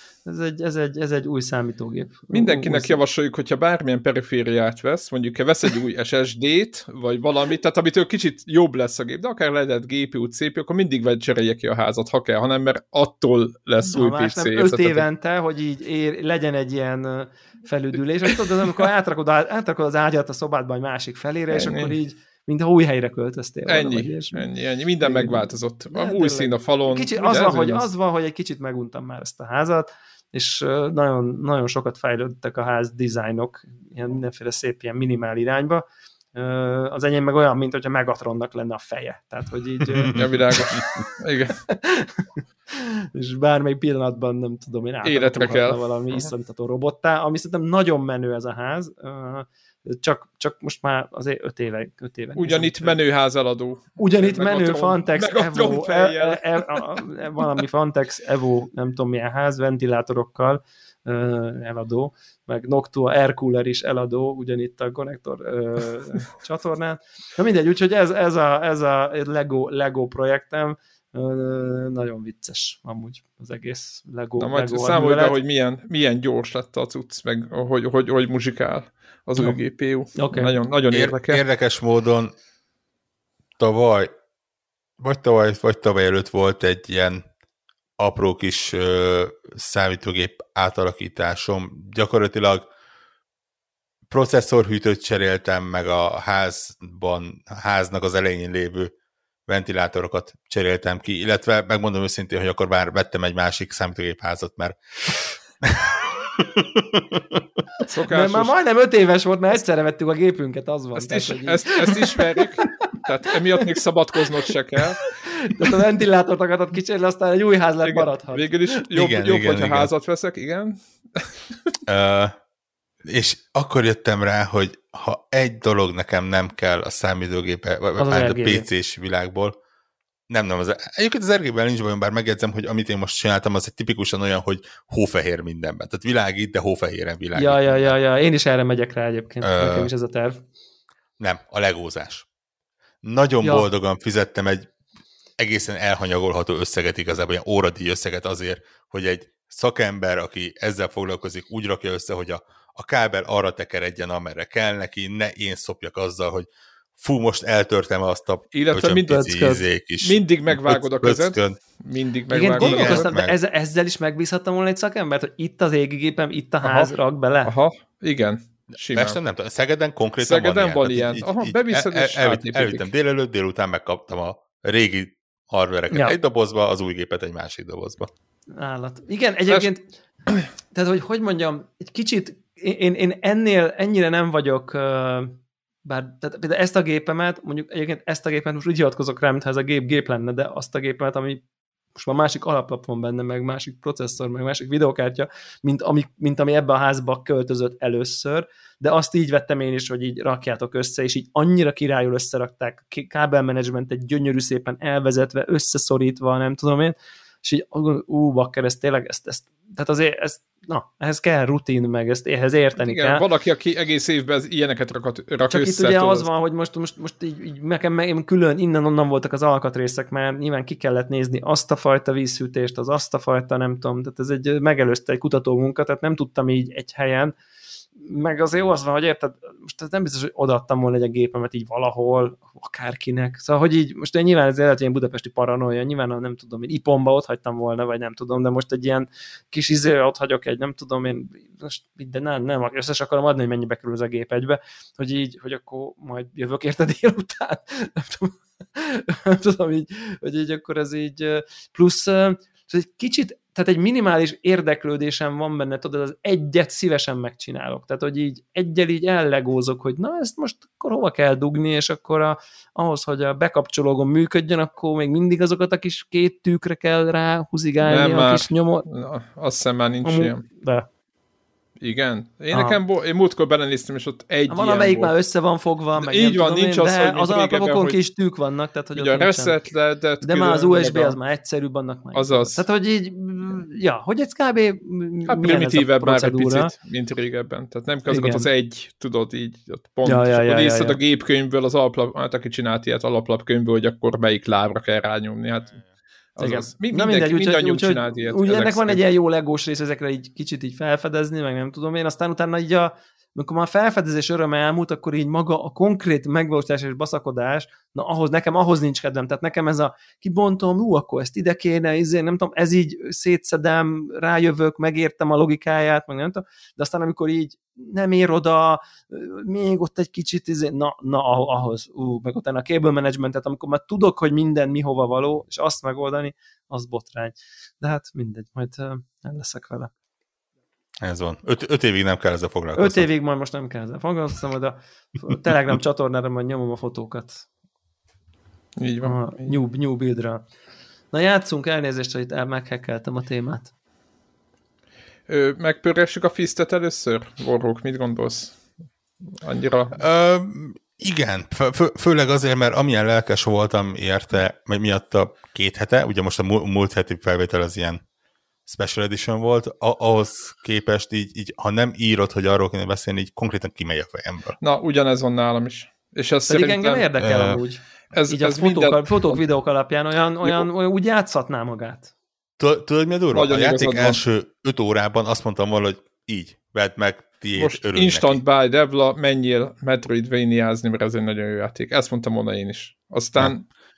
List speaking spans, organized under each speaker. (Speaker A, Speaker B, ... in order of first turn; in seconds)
Speaker A: 0.2-3.0, 13.9-24.5, 25.0-40.8, 41.7-53.0, 54.0-75.4, 80.2-80.5, 108.1-113.0, 115.0-118.8, 128.0-128.7, 137.3-140.4, 159.1-159.6, 162.3-167.5, 175.9-176.2, 178.6-179.9, 180.6-191.4, 191.9-213.2, 215.5-227.3, 228.0-268.9, 270.0-270.9, 272.5-272.8, 274.5-279.7, 280.2-286.7, 288.1-288.5, 290.1-291.0, 296.4-329.9, 332.8-337.4, 339.0-340.4, 341.1-343.7, 366.5-372.1
Speaker B: 2.3-15.1, 21.5-22.0, 23.7-27.9, 40.0-41.6, 45.0-46.3, 52.4-57.1, 74.4-81.4, 107.9-108.5, 111.0-115.5, 117.8-121.3, 158.5-163.1, 166.6-169.2, 170.2-172.9, 212.8-216.3, 267.8-270.4, 271.8-275.1, 276.0-278.0, 278.9-281.2, 282.1-282.6, 285.3-295.8, 296.4-299.0, 338.8-339.5, 345.3-348.6, 349.3-350.0, 364.6-367.1, 368.1-369.4, 373.3-374.2, 377.6-383.6
Speaker C: 80.9-82.3, 83.6-84.1, 85.0-87.2, 88.0-92.7, 94.1-98.9, 99.5-107.4, 118.9-119.9, 121.9-122.3, 123.0-129.5, 130.3-137.9, 139.4-139.9, 141.2-142.3, 143.0-144.7, 145.4-156.5, 157.0-161.6, 162.6-163.4, 168.9-178.1, 331.0-333.1, 350.0-358.0, 358.7-364.6, 367.2-367.6, 372.6-378.4